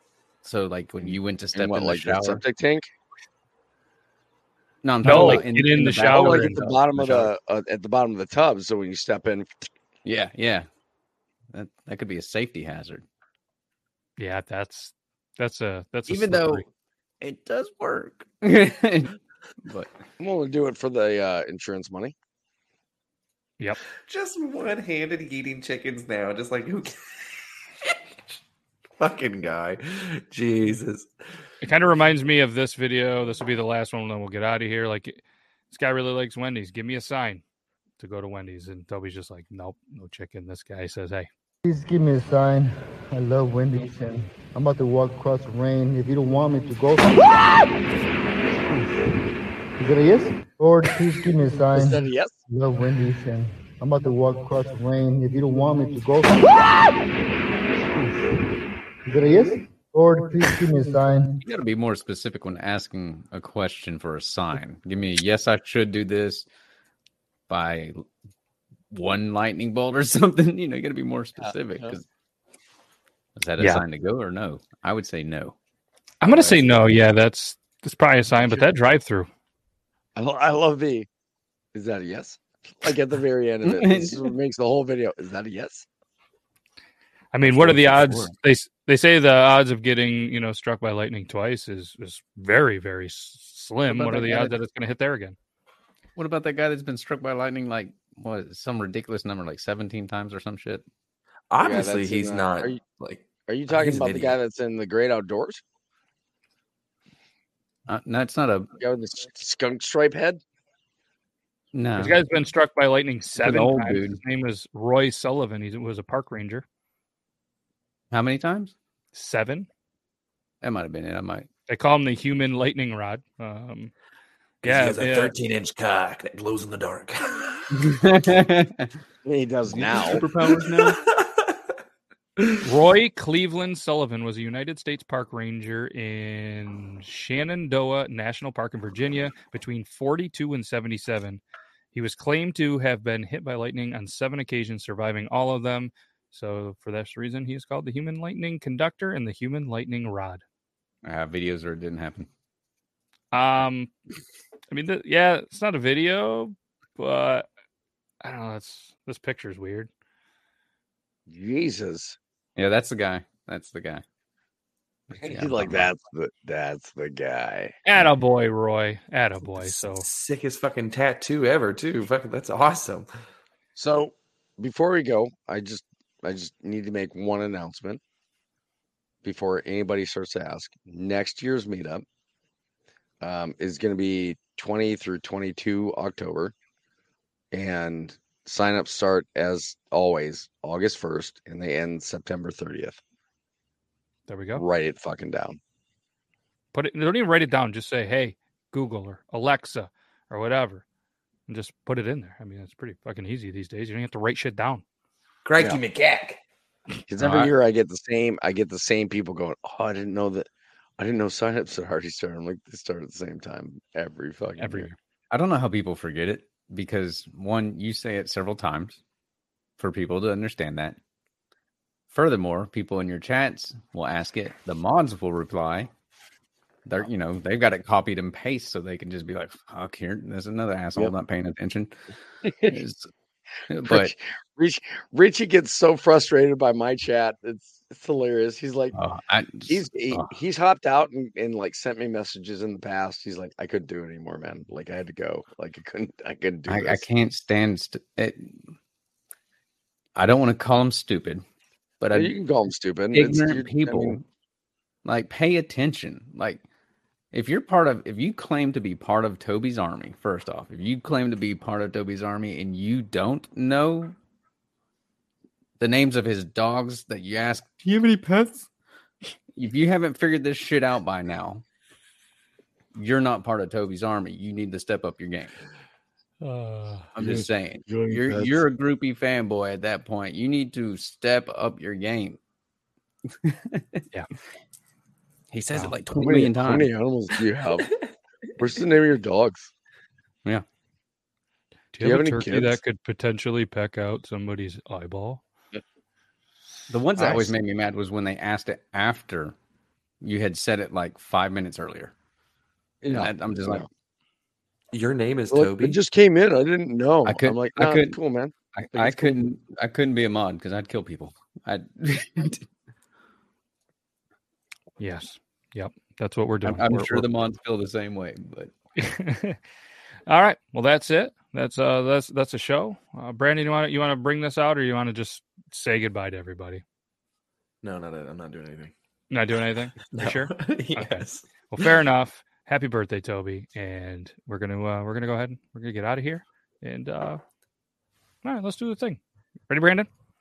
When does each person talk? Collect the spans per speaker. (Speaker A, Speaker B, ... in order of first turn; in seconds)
Speaker A: 0.4-2.4, 4.8-7.3, 10.1-10.7, 11.5-13.1, 16.1-16.6, 17.2-19.9, 61.4-66.5, 67.5-68.0, 68.9-72.0, 73.4-75.6, 76.3-76.9, 83.6-84.3, 96.2-100.8, 107.9-108.7, 111.7-112.2, 113.4-114.2, 118.1-118.7, 120.6-121.5, 127.8-128.9, 129.7-131.0, 151.0-152.3, 162.6-164.0, 165.3-165.9, 207.2-207.5, 215.3-219.0, 219.8-221.0, 222.1-225.9, 226.9-232.0, 232.7-233.1, 233.7-234.1, 238.9-240.3, 246.7-248.7, 250.2-251.4, 252.0-252.3, 253.1-254.2, 255.1-256.6, 257.3-264.2, 265.8-268.7, 269.6-271.6, 272.9-275.6, 277.1-282.4, 283.4-284.0, 285.5-286.9, 296.9-299.6, 300.2-302.1, 303.1-303.9, 307.3-308.2, 308.8-312.6, 316.6-318.7
Speaker B: 1.0-2.9, 5.0-5.5, 6.0-9.5, 20.2-22.1, 51.8-52.4, 71.4-72.0, 80.2-81.1, 81.7-85.9, 87.4-88.3, 93.9-94.5, 101.6-102.8, 103.5-105.6, 108.8-110.4, 129.2-130.2, 161.3-162.2, 165.2-167.7, 173.8-178.0, 179.2-182.1, 183.2-186.5, 187.5-193.0, 194.6-195.6, 207.1-210.5, 211.0-214.9, 232.5-232.8, 233.9-238.9, 239.7-247.0, 252.1-254.2, 278.2-278.6, 286.2-287.9, 288.6-289.7, 292.0-292.8, 297.2-297.5, 303.0-303.9, 305.5-309.4
Speaker C: 5.0-6.6, 14.2-16.6, 31.6-37.4, 38.0-41.3, 76.2-79.3, 87.3-95.4, 112.0-116.6, 119.1-119.7, 121.7-123.9, 124.6-125.3, 132.6-141.4, 141.9-150.4, 153.3-153.9, 154.7-157.5, 158.2-159.9, 167.8-170.1, 194.3-194.7, 196.7-200.8, 201.5-204.8, 214.6-214.9, 276.4-277.1, 291.9-295.4, 315.0-317.3, 319.0-319.6, 320.3-326.8, 329.3-331.2, 331.7-337.4, 338.4-340.1
Speaker D: 24.0-27.0, 29.0-31.1, 101.5-104.3, 124.6-127.7, 130.3-131.5, 132.4-132.7, 169.5-173.1, 205.4-206.4, 304.9-306.0, 327.8-328.9, 330.1-331.9
Speaker E: 41.6-47.4, 49.8-56.6, 59.0-61.4